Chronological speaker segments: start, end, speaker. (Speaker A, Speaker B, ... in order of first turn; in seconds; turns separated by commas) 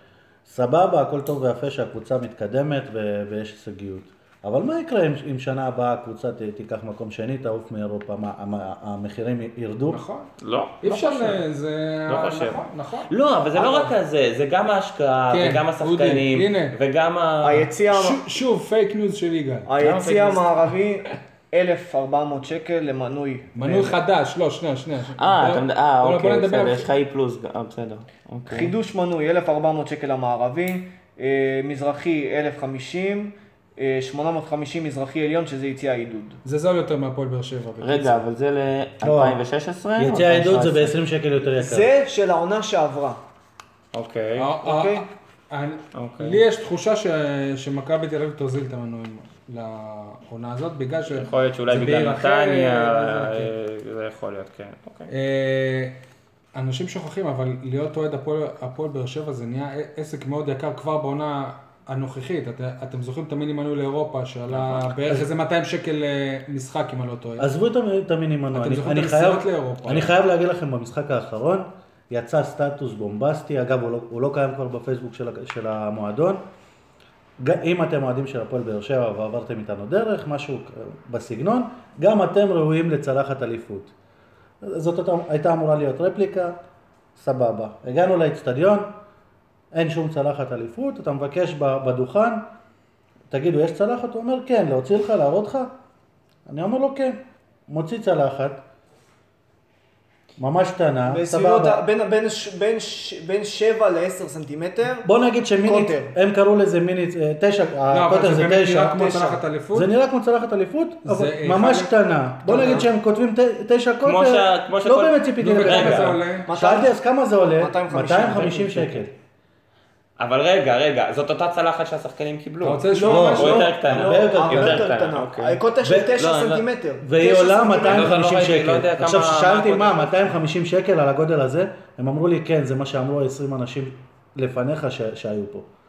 Speaker A: 0.5-10.0, Speaker B: 9.9-10.3, Speaker C: 10.4-11.4, Speaker B: 10.8-13.1, Speaker C: 12.1-17.7, Speaker D: 13.6-13.9, Speaker B: 15.3-16.8, Speaker D: 17.4-18.2, Speaker B: 17.9-20.1, Speaker D: 19.7-23.8, Speaker C: 19.8-20.4, Speaker B: 23.6-26.9, Speaker C: 25.2-28.7, Speaker D: 28.5-36.4, Speaker B: 36.5-38.2, Speaker C: 37.8-40.9, Speaker A: 39.0-39.4, Speaker A: 40.0-41.9, Speaker D: 41.6-43.2, Speaker C: 43.9-44.5, Speaker B: 44.4-53.5, Speaker D: 44.6-45.0, Speaker C: 45.9-46.4, Speaker C: 51.1-55.1, Speaker B: 55.1-56.0, Speaker B: 56.5-67.5, Speaker C: 64.6-64.8, Speaker A: 67.4-76.4, Speaker B: 68.5-70.1, Speaker A: 77.4-83.9, Speaker A: 84.6-86.6, Speaker A: 87.2-88.9, Speaker A: 89.7-92.4, Speaker A: 93.3-95.7, Speaker A: 96.5-98.6, Speaker A: 100.4-101.8, Speaker D: 101.1-105.1, Speaker A: 105.0-109.0, Speaker D: 105.6-106.1, Speaker B: 107.9-109.9, Speaker D: 108.9-109.4, Speaker A: 109.7-119.1, Speaker B: 111.0-111.9, Speaker D: 112.4-112.9, Speaker C: 114.0-116.1, Speaker B: 115.4-116.5, Speaker D: 116.5-116.9, Speaker D: 117.6-119.1, Speaker C: 120.2-125.6, Speaker B: 122.6-123.6, Speaker D: 122.9-128.2, Speaker A: 123.0-124.9, Speaker A: 125.8-126.2, Speaker C: 126.2-126.7, Speaker A: 127.0-135.7, Speaker C: 127.8-130.3